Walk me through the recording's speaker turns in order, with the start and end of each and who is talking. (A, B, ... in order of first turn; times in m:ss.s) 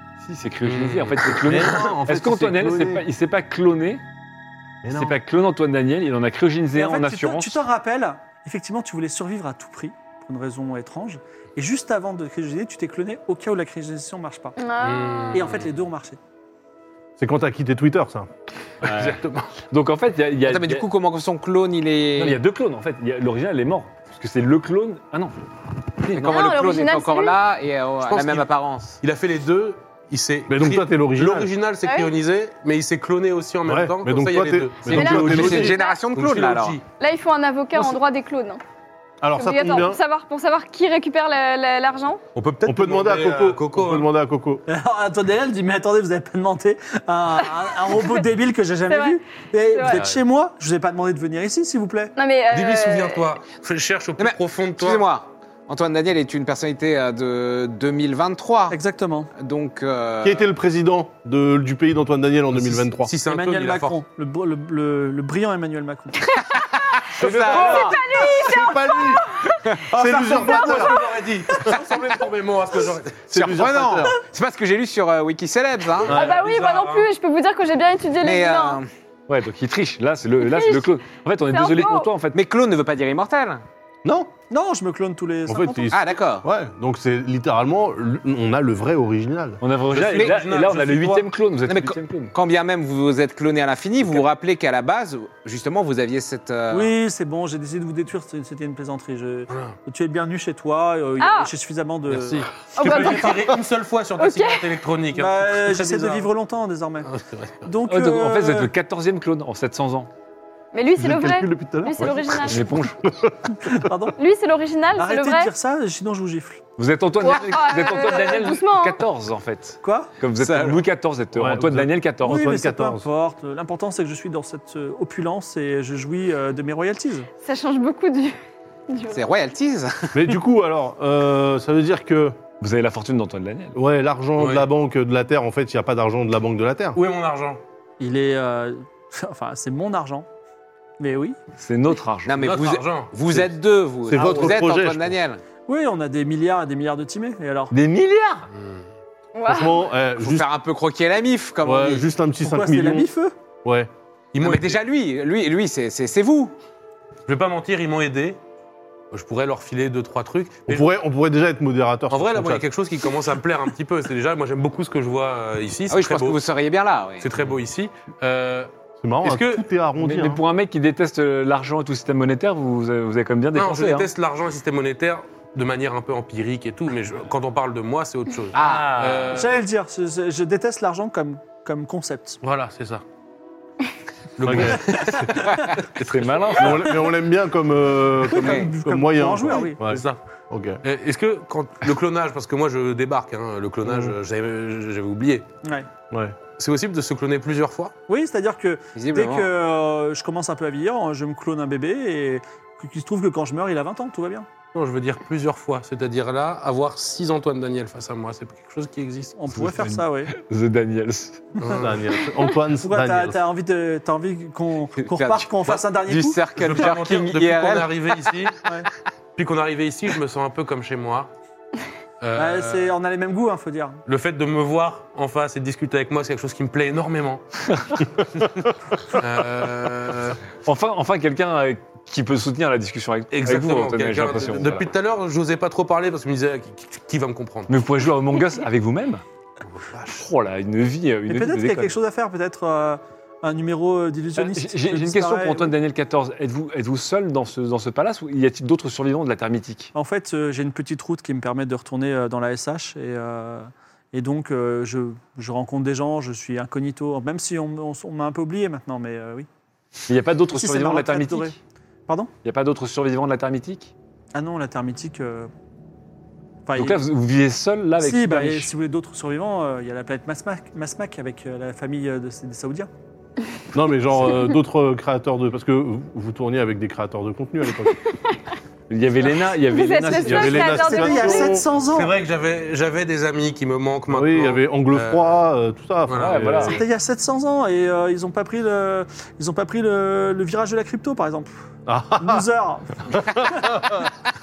0:00.2-0:04.0 A
0:00.6-0:01.8 B
0:01.4-0:03.1 C
0:04.8-0:05.2 C
0:04.9-0:07.6 A
0:06.8-0:14.6 D
0:14.6-0:15.4 E
0:14.8-0:15.7 B
0:15.3-0:16.2 D
0:17.2-0:18.3 C
0:18.8-0:20.9 A
0:18.8-0:19.4 B
0:20.5-0:22.4 F
0:22.2-0:25.4 A
0:26.0-0:29.0 F
0:26.1-0:27.4 E
0:28.0-0:28.5 B
0:29.0-0:36.8 B
0:30.5-0:31.5 C
0:31.8-0:32.1 E
0:33.7-0:35.8 C
0:34.8-0:36.0 E
0:34.9-0:36.8 F
0:37.0-0:38.6 E
0:39.2-0:40.0 C
0:39.4-0:42.2 E
0:42.4-0:44.1 B
0:42.6-0:44.6 C
0:44.7-0:52.1 D
0:48.9-0:50.0 E
0:52.2-0:53.3 E
0:52.5-0:55.1 B
0:54.2-0:58.8 F
0:58.7-0:59.3 D
0:59.4-1:00.5 F
1:00.2-1:03.1 C
1:02.6-1:04.0 B
1:03.2-1:06.2 D
1:06.4-1:08.0 F
1:07.2-1:07.9 A
1:07.4-1:09.2 E
1:08.2-1:09.2 C
1:09.9-1:11.7 C
1:10.0-1:11.3 D
1:10.3-1:13.3 B
1:13.3-1:14.2 C
1:13.3-1:16.2 F
1:16.0-1:17.1 B
1:16.1-1:16.3 C
1:16.1-1:18.8 E
1:18.2-1:18.9 F
1:19.3-1:22.4 A
1:20.4-1:21.0 E
1:21.5-1:22.1 E
1:22.3-1:23.6 F
1:24.0-1:24.3 C
1:24.5-1:26.0 D
1:25.5-1:29.6 C
1:25.9-1:26.5 F
1:29.6-1:32.3 A
1:29.9-1:31.2 B
1:30.1-1:30.4 F
1:31.7-1:36.9 F
1:36.7-1:43.4 D
1:39.5-1:39.8 B
1:41.2-1:41.5 E
1:42.1-1:46.3 B
1:42.7-1:43.6 E
1:44.2-1:44.6 E
1:45.1-1:47.1 D
1:47.1-1:47.7 B
1:47.6-1:48.7 D
1:47.9-1:50.1 A
1:50.7-1:52.7 E
1:51.0-1:53.9 C
1:52.0-1:53.0 A
1:53.7-1:54.2 D
1:54.2-1:55.5 E
1:55.0-1:56.6 D
1:56.8-2:02.5 A
1:57.2-1:59.0 E
1:59.8-2:00.1 D
2:00.4-2:00.8 F
2:01.3-2:03.1 C
2:02.2-2:07.3 D
2:07.4-2:08.4 E
2:08.9-2:09.2 E
2:09.1-2:10.2 F
2:10.1-2:12.4 C
2:12.6-2:13.8 A
2:13.8-2:17.0 C
2:14.4-2:14.7 B
2:17.0-2:17.6 B
2:18.0-2:20.3 D
2:21.0-2:21.4 D
2:21.6-2:22.4 A
2:22.3-2:25.4 F
2:22.4-2:23.5 B
2:24.0-2:25.2 C
2:25.7-2:27.7 D
2:27.7-2:28.5 A
2:28.5-2:28.8 B
2:29.4-2:29.9 E
2:29.4-2:30.5 C
2:30.2-2:32.1 F
2:31.6-2:33.1 C
2:32.4-2:33.3 D
2:33.6-2:33.9 C
2:34.3-2:34.8 B
2:34.4-2:36.6 F
2:37.3-2:38.4 B
2:39.1-2:40.9 B
2:40.7-2:42.6 C
2:42.1-2:46.4 B
2:45.9-2:47.4 F
2:47.2-2:48.7 B
2:49.0-2:50.4 C
2:49.2-2:49.6 B
2:50.0-2:54.1 A
2:53.6-2:59.6 B
2:58.5-2:58.9 F
2:58.5-2:59.5 A
2:59.3-3:02.4 D
3:02.4-3:03.0 B
3:04.4-3:05.6 B
3:04.4-3:05.3 C
3:05.4-3:05.7 F
3:06.0-3:07.1 A
3:06.5-3:10.8 C
3:08.2-3:09.8 D
3:08.3-3:08.7 F
3:09.8-3:10.2 B
3:10.8-3:15.5 B
3:13.8-3:14.1 C
3:15.6-3:15.9 D
3:16.1-3:16.4 C
3:16.5-3:17.9 B
3:18.1-3:24.5 D
3:19.0-3:19.5 F
3:24.7-3:29.4 B
3:29.4-3:30.3 D
3:29.5-3:31.6 A
3:31.6-3:31.9 B
3:31.8-3:33.4 C
3:32.7-3:36.5 D
3:35.0-3:38.4 F
3:36.5-3:38.6 B
3:39.4-3:41.3 B
3:42.2-3:42.9 B
3:42.3-3:44.0 D
3:44.1-3:47.4 B
3:47.7-3:48.0 A
3:49.1-3:50.4 B
3:50.6-3:54.9 A
3:53.3-3:57.7 B
3:57.7-3:59.2 A
3:59.8-4:00.2 B
4:00.1-4:02.0 A
4:01.3-4:05.7 D
4:04.4-4:09.9 A
4:10.0-4:19.5 D
4:20.1-4:21.6 A
4:20.5-4:22.3 D
4:22.4-4:23.9 A
4:24.3-4:25.5 D
4:26.7-4:27.0 D
4:26.8-4:28.7 A
4:28.0-4:32.9 D
4:33.7-4:38.0 C
4:38.1-4:38.4 E
4:38.9-4:40.8 A
4:39.6-4:41.6 E
4:40.1-4:41.7 C
4:40.5-4:42.2 D
4:41.9-4:45.3 B
4:44.1-4:46.8 C
4:46.1-4:46.8 B
4:46.2-4:46.8 A
4:46.6-4:51.5 D
4:51.9-4:52.5 C
4:52.2-4:53.6 D
4:53.1-4:54.1 C